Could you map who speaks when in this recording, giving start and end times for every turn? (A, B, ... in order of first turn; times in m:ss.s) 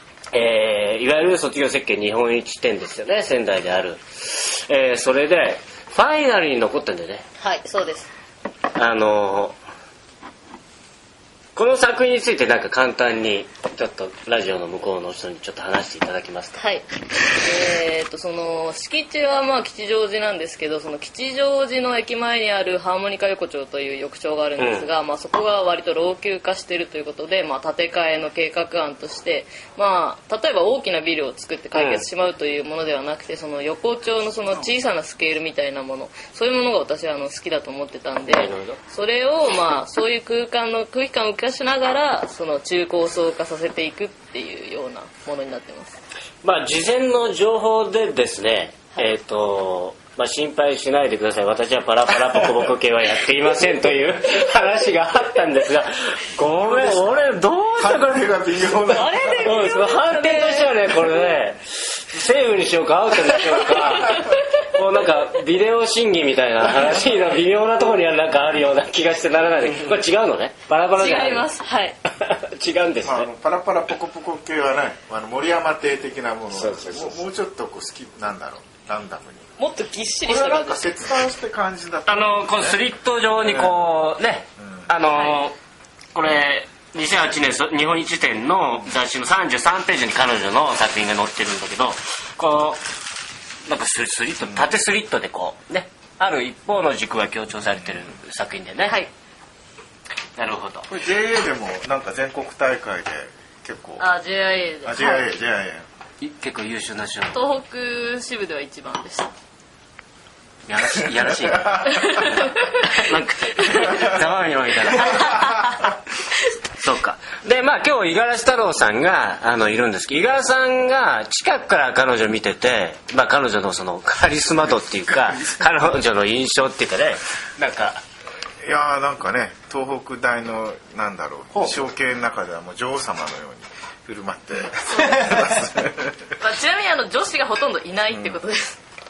0:00.3-0:07.2 A
0:07.4-0:08.1 B
0:08.7-0:09.6 A
0:11.6-0:16.6 A
0:16.6-0:46.0 B
0:24.6-0:24.9 A
0:31.8-0:32.1 A
0:38.3-0:38.8 A
0:46.4-0:58.3 A
0:56.6-0:57.2 C
0:57.8-0:59.5 C
0:58.8-1:01.3 B
0:59.4-1:11.5 A
1:03.4-1:04.5 B
1:11.0-1:12.0 B
1:12.1-1:13.3 A
1:13.0-1:19.4 C
1:16.5-1:17.3 A
1:19.6-1:21.0 B
1:20.2-1:22.8 C
1:22.0-1:25.6 A
1:23.4-1:23.8 C
1:24.6-1:24.9 C
1:25.1-1:25.4 B
1:26.1-1:32.8 A
1:33.7-1:39.0 A
1:38.8-1:39.1 B
1:40.4-1:40.9 A
1:40.9-1:44.1 C
1:44.0-1:45.2 B
1:44.8-1:45.9 C
1:46.2-1:47.4 A
1:47.3-1:49.3 B
1:50.7-1:55.8 A
1:51.4-1:52.4 C
1:51.9-1:53.0 B
1:53.6-1:54.0 B
1:55.0-1:55.9 B
1:56.7-2:08.0 A
2:08.6-2:16.3 C
2:14.8-2:15.6 B
2:16.4-2:18.8 B
2:18.1-2:18.4 C